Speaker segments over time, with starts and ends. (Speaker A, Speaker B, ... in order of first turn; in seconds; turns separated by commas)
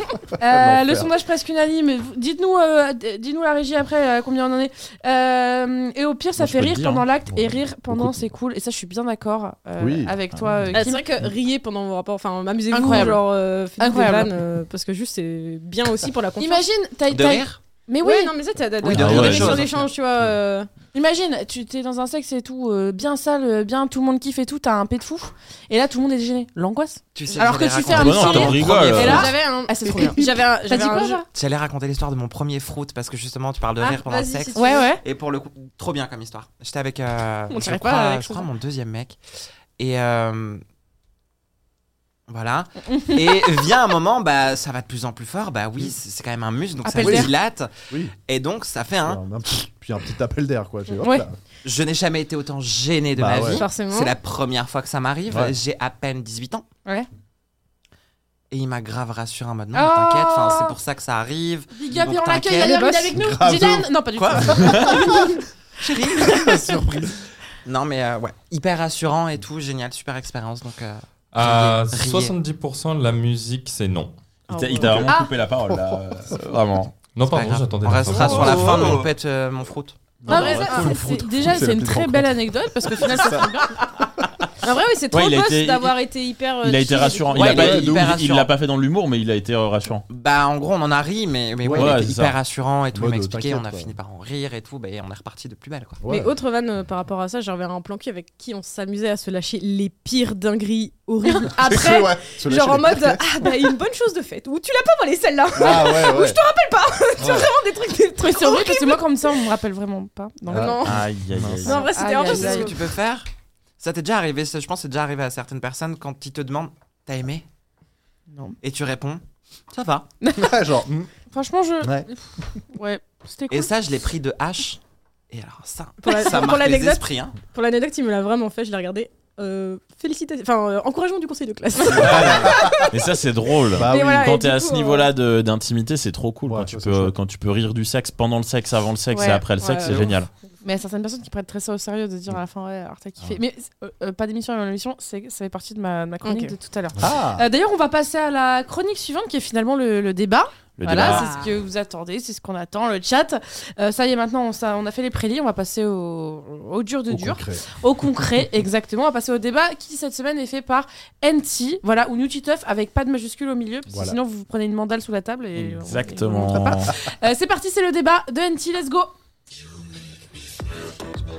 Speaker A: 0.4-1.1, Speaker B: 0.4-11.1, Speaker C: 6.4-7.1, Speaker A: 7.3-8.3, Speaker A: 9.8-10.2, Speaker D: 10.7-16.6, Speaker B: 12.7-14.3, Speaker B: 16.4-18.4, Speaker E: 17.1-17.6, Speaker D: 18.0-20.7, Speaker E: 18.8-19.9, Speaker C: 18.9-19.6, Speaker B: 20.9-31.3, Speaker E: 27.1-29.3, Speaker C: 27.9-29.3, Speaker D: 28.0-31.2, Speaker E: 31.3-39.2, Speaker D: 33.8-34.9, Speaker B: 34.5-35.0, Speaker D: 37.5-38.5, Speaker E: 39.8-40.6, Speaker E: 42.3-47.7, Speaker B: 46.9-47.3, Speaker D: 47.0-47.3, Speaker E: 48.2-49.2, Speaker A: 49.0-51.4, Speaker B: 50.9-51.3, Speaker E: 51.6-56.7, Speaker A: 53.2-53.6, Speaker D: 53.5-54.1, Speaker A: 55.3-55.5, Speaker E: 58.5-62.8, Speaker B: 59.7-60.8, Speaker B: 61.7-65.3, Speaker A: 62.5-65.1, Speaker E: 64.2-65.2, Speaker E: 65.8-66.7, Speaker A: 66.2-67.2, Speaker E: 67.7-72.3, Speaker F: 71.3-74.1, Speaker B: 74.5-75.3, Speaker C: 74.5-77.1, Speaker A: 74.8-75.1, Speaker A: 75.7-76.0, Speaker F: 77.1-79.0, Speaker E: 77.3-80.0, Speaker A: 78.1-79.1, Speaker A: 80.2-83.5, Speaker B: 80.3-83.8, Speaker D: 80.3-81.3, Speaker F: 80.5-81.0, Speaker D: 84.6-87.8, Speaker C: 85.1-86.0, Speaker C: 86.6-90.0, Speaker E: 87.3-88.5, Speaker A: 87.5-88.1, Speaker E: 90.1-96.0, Speaker A: 91.6-92.0, Speaker C: 91.7-92.3, Speaker A: 92.9-93.9, Speaker A: 96.0-96.3, Speaker D: 96.1-109.1, Speaker A: 101.5-103.4, Speaker A: 105.5-106.4, Speaker A: 107.2-107.5, Speaker B: 108.2-110.8, Speaker A: 110.5-111.7, Speaker D: 110.5-111.1, Speaker C: 110.8-111.8, Speaker D: 111.6-112.8, Speaker B: 111.7-112.8, Speaker E: 112.2-113.3, Speaker E: 113.8-117.5, Speaker B: 118.3-118.6, Speaker E: 118.6-120.1, Speaker B: 120.2-120.5, Speaker A: 120.3-121.1, Speaker B: 121.3-122.1, Speaker A: 121.8-122.1, Speaker B: 122.7-123.7, Speaker E: 123.5-124.8, Speaker E: 125.3-127.3, Speaker D: 126.0-133.1, Speaker A: 131.9-132.9, Speaker C: 132.0-140.3, Speaker D: 133.7-135.1, Speaker A: 133.7-134.3, Speaker A: 136.5-137.1, Speaker B: 139.1-139.4, Speaker D: 139.6-140.1, Speaker B: 140.6-169.1, Speaker D: 146.2-146.5, Speaker A: 147.0-147.5, Speaker C: 150.8-151.3, Speaker A: 157.1-157.6, Speaker A: 163.9-164.2, Speaker C: 165.6-167.0